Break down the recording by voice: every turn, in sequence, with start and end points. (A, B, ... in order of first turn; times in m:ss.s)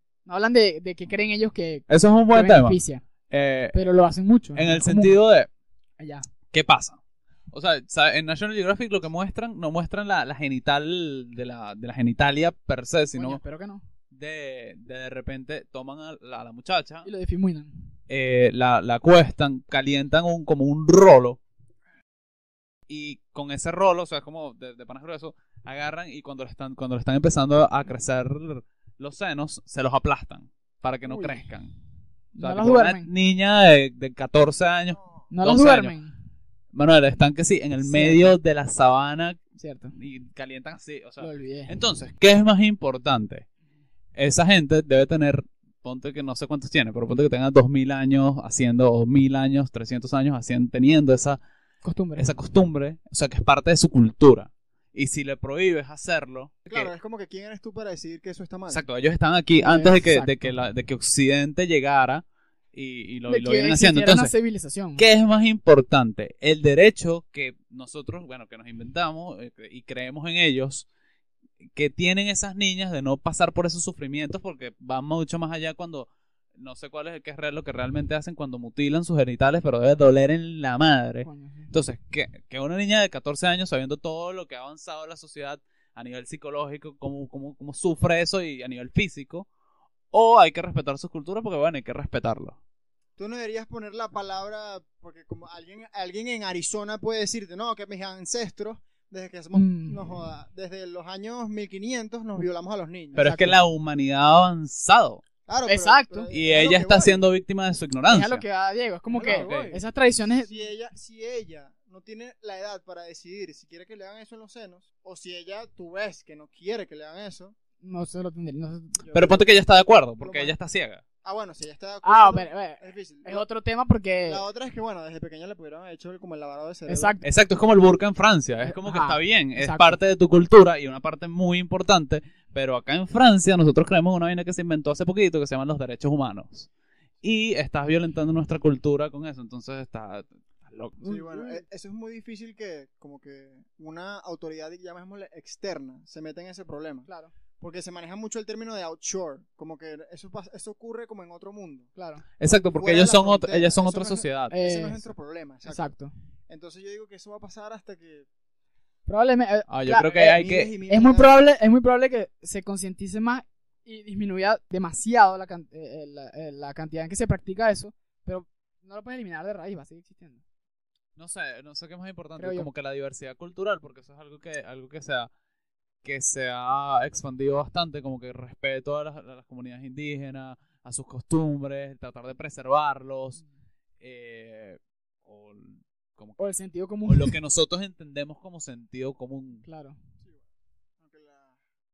0:00.2-0:03.0 A
0:01.9-0:02.8 B
0:03.3-0:03.8 B
0:03.7-0:05.2 A
0:04.5-0:05.5 B
0:06.0-0:06.3 A
0:06.5-0:07.0 B
0:07.5-0:13.4 B
0:13.1-0:13.8 A
0:14.1-0:17.1 B
0:17.0-0:17.9 A
0:18.1-0:21.4 B
0:22.9-0:31.7 B
0:31.0-0:31.5 A
0:32.3-0:33.1 A
0:32.4-0:35.9 B
0:35.3-0:36.1 A
0:36.7-0:39.4 B
0:37.8-0:38.4 A
0:39.6-0:40.0 A
0:40.0-0:43.4 B
0:41.2-0:41.7 A
0:44.1-0:51.4 B
0:51.8-0:52.3 A
0:52.2-0:56.9 B
0:56.7-0:58.8 C
0:58.7-1:04.3 B
0:59.6-1:00.5 A
1:03.3-1:05.0 A
1:05.0-1:10.9 B
1:11.6-1:29.5 B
1:21.2-1:21.7 A
1:30.1-1:32.6 B
1:33.2-1:43.3 C
1:39.5-1:40.0 A
1:43.1-1:45.2 B
1:43.2-1:43.6 A
1:45.5-1:47.2 C
1:45.7-1:46.3 A
1:46.3-1:48.4 B
1:48.1-1:50.7 A
1:49.1-1:57.5 C
1:49.2-1:49.7 B
1:57.8-1:59.1 A
1:59.0-1:59.4 C
1:59.1-2:01.0 B
2:00.2-2:00.6 C
2:01.2-2:03.4 C
2:02.0-2:04.4 A
2:04.3-2:07.1 C
2:06.9-2:07.2 A
2:07.2-2:16.7 B
2:08.6-2:10.0 A
2:17.2-2:21.0 B
2:21.0-2:21.6 A
2:21.0-2:27.1 C
2:27.1-2:27.3 A
2:27.6-2:31.9 C
2:32.0-2:32.2 A
2:32.4-2:34.5 B
2:32.7-2:35.9 C
2:34.5-2:35.1 A
2:35.6-2:36.1 A
2:36.5-2:38.3 C
2:39.0-2:40.2 A
2:39.7-2:40.7 B
2:40.1-2:41.3 C
2:40.9-2:50.4 A
2:51.2-2:55.3 B
2:52.4-2:52.7 A
2:56.0-3:03.4 B
3:04.0-3:06.4 B
3:06.4-3:07.3 A
3:07.0-3:09.6 B
3:09.6-3:10.0 A
3:11.0-3:11.6 C